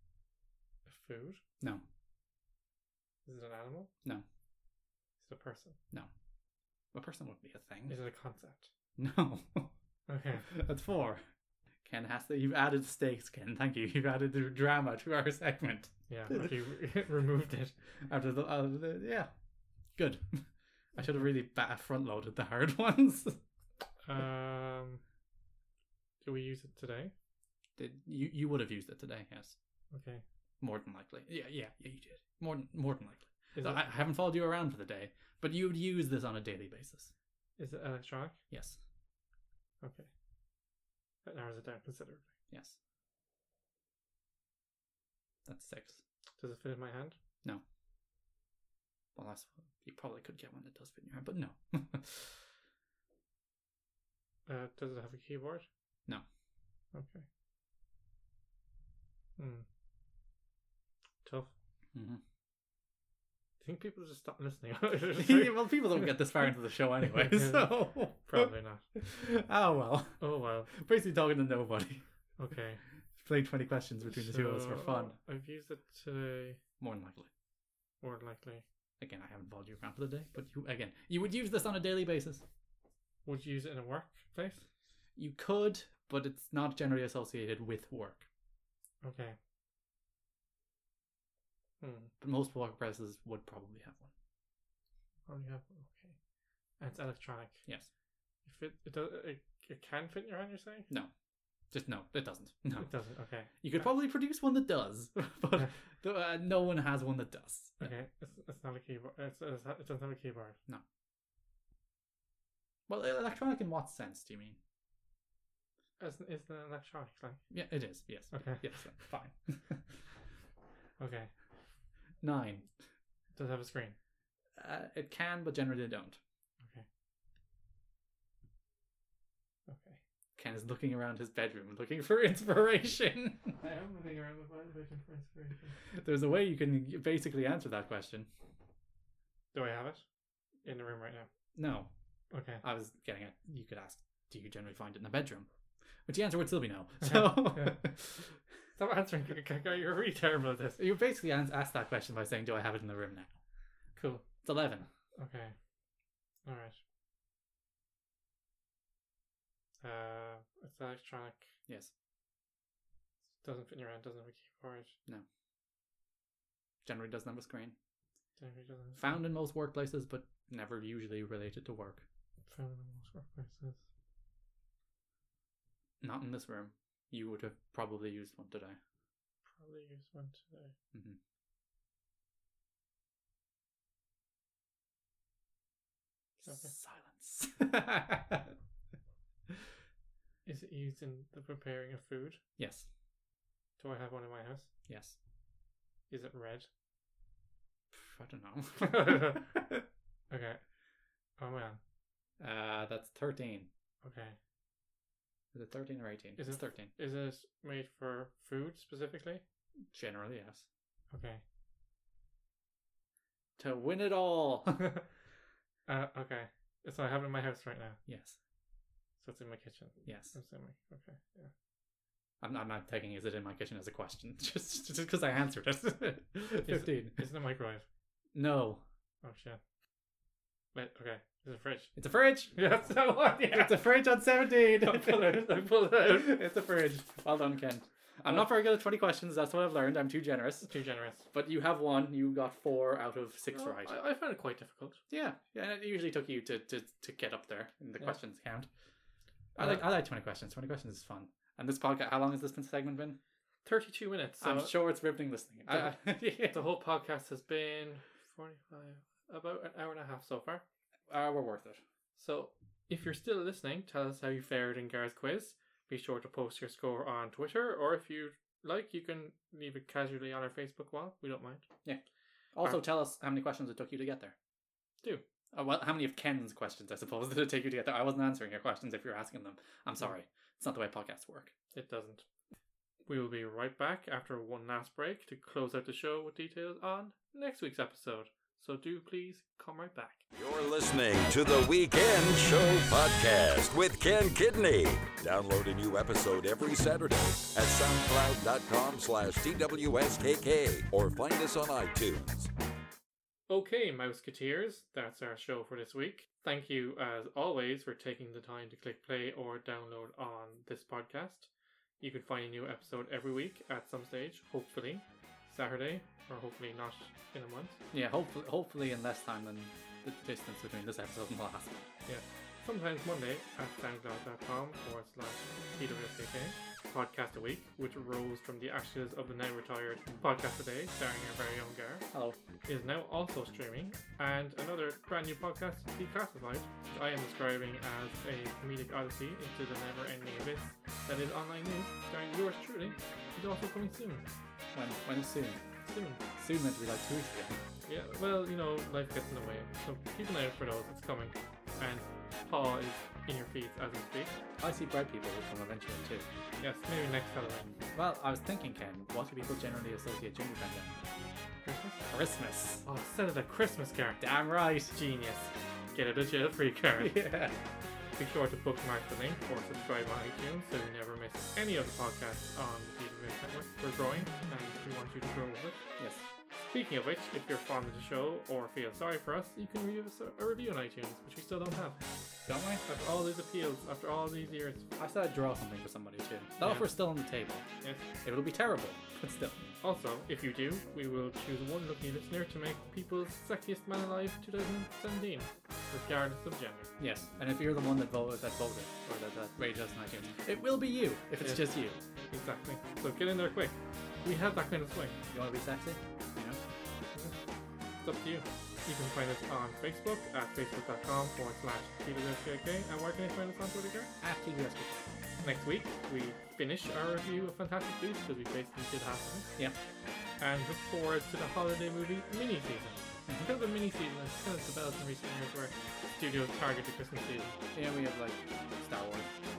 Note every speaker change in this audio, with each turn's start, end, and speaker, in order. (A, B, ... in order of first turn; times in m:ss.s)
0:00.8-0:01.4 A
0:03.2-0:03.9 A
0:05.2-0:05.8 A
0:06.9-0:08.0 B
0:07.9-0:08.7 A
0:09.0-0:09.7 B
0:10.1-0:10.5 A
0:10.5-0:11.2 B
0:11.8-0:16.5 B
0:16.1-0:17.7 A
0:18.0-0:19.3 B
0:20.0-0:23.4 B
0:24.0-0:25.0 A
0:26.2-0:27.1 A
0:27.8-0:29.6 B
0:29.9-0:30.2 A
0:30.6-0:37.1 B
0:33.5-0:33.8 A
0:37.6-0:38.4 A
0:38.5-0:38.8 B
0:39.8-0:40.1 A
0:41.2-0:42.3 A
0:42.5-0:42.8 B
0:45.4-0:46.0 B
0:46.4-0:47.2 A
0:49.1-0:52.4 B
0:54.5-0:55.7 A
0:56.9-0:57.2 A
0:59.4-0:59.6 A
1:01.2-1:01.5 A
1:01.9-1:02.2 B
1:03.6-1:06.1 A
1:05.2-1:10.2 B
1:07.1-1:08.8 A
1:10.2-1:10.7 A
1:10.7-1:12.0 B
1:12.4-1:12.8 A
1:13.2-1:15.2 B
1:14.1-1:16.6 A
1:16.8-1:17.3 B
1:18.0-1:18.6 A
1:19.0-1:22.4 B
1:23.2-1:24.6 A
1:25.2-1:28.3 B
1:29.0-1:29.4 A
1:31.8-1:32.1 A
1:32.2-1:34.1 B
1:35.3-1:36.2 A
1:36.8-1:37.6 A
1:38.4-1:40.9 A
1:41.7-1:42.9 B
1:42.8-1:43.5 A
1:43.6-1:47.9 B
1:47.8-1:50.6 A
1:52.9-1:54.6 B
1:56.0-1:57.4 A
1:57.5-1:59.8 B
1:58.3-1:58.7 A
2:01.0-2:01.3 A
2:02.2-2:02.7 B
2:03.3-2:04.0 A
2:04.6-2:06.2 B
2:06.6-2:06.8 A
2:09.7-2:10.0 A
2:10.4-2:13.6 B
2:13.6-2:15.8 A
2:15.9-2:18.3 B
2:19.5-2:20.0 A
2:20.6-2:21.3 A
2:21.5-2:21.9 B
2:22.3-2:22.6 A
2:22.6-2:25.5 B
2:26.0-2:28.4 B
2:27.0-2:27.8 A
2:28.8-2:30.8 A
2:30.8-2:33.4 B
2:34.0-2:34.3 A
2:34.4-2:34.9 B
2:35.2-2:35.6 A
2:36.4-2:36.8 A
2:39.8-2:41.5 A
2:43.4-2:45.0 A
2:46.8-2:47.8 B
2:48.4-2:49.1 A
2:49.0-2:52.0 B
2:52.5-2:53.8 A
2:56.0-2:58.8 B
2:59.5-3:00.7 A
3:00.9-3:01.2 B
3:06.4-3:08.5 B
3:06.4-3:06.7 A
3:10.4-3:12.4 A
3:12.6-3:12.9 B
3:13.8-3:14.7 A
3:14.8-3:15.2 B
3:16.1-3:16.7 A
3:17.9-3:19.8 B
3:18.8-3:19.4 A
3:20.3-3:20.6 A
3:21.4-3:21.8 A
3:22.4-3:23.7 B
3:24.0-3:24.4 A
3:25.5-3:26.9 B
3:26.4-3:29.4 A
3:29.9-3:30.6 B
3:31.1-3:31.4 A
3:33.6-3:34.9 B
3:35.9-3:38.0 A
3:38.1-3:38.4 B
3:39.2-3:41.5 A
3:40.0-3:40.4 B
3:42.4-3:47.3 B
3:46.6-3:47.8 A
3:48.3-3:48.8 B
3:49.2-3:49.6 A
3:50.7-3:51.9 A
3:52.0-3:52.6 B
3:52.5-3:53.8 A
3:53.4-4:00.7 B
3:54.8-3:56.4 A
4:00.6-4:01.2 A
4:01.3-4:03.9 B
4:03.5-4:05.0 A
4:05.1-4:08.7 B
4:09.6-4:09.8 A
4:09.6-4:13.2 B
4:13.6-4:14.7 A
4:14.4-4:16.6 B
4:15.7-4:20.6 A
4:21.1-4:21.8 B
4:22.2-4:31.6 A
4:32.5-4:34.3 B
4:35.5-4:41.5 B
4:41.7-4:42.2 A
4:43.1-4:50.2 A
4:50.4-5:02.5 C
5:03.5-5:17.8 A
5:17.9-5:21.9 B
5:22.0-5:32.0 A
5:32.1-5:32.4 B
5:32.6-5:44.2 A
5:44.7-5:45.6 B
5:45.8-5:46.2 A
5:46.4-5:47.6 B
5:47.8-5:54.4 A
5:54.6-5:56.3 B
5:56.6-5:57.8 A
5:57.9-6:01.0 B
6:01.6-6:02.0 A
6:02.1-6:02.8 B
6:02.8-6:04.2 A
6:04.2-6:04.9 B
6:04.9-6:07.1 A
6:07.0-6:07.6 B
6:08.2-6:15.8 A
6:16.0-6:16.3 B
6:16.5-6:22.0 A
6:22.4-6:22.8 B
6:22.8-6:24.9 A
6:25.0-6:27.6 B
6:26.6-6:26.9 A
6:27.8-6:28.1 A
6:28.2-6:29.7 B
6:29.8-6:36.9 A
6:37.0-6:42.0 B
6:41.4-6:41.6 A
6:42.3-6:45.2 A
6:45.3-6:46.6 B
6:48.0-6:54.1 A
6:54.2-6:55.2 B
6:55.4-6:59.5 A
7:00.4-7:07.6 A
7:07.7-7:09.3 B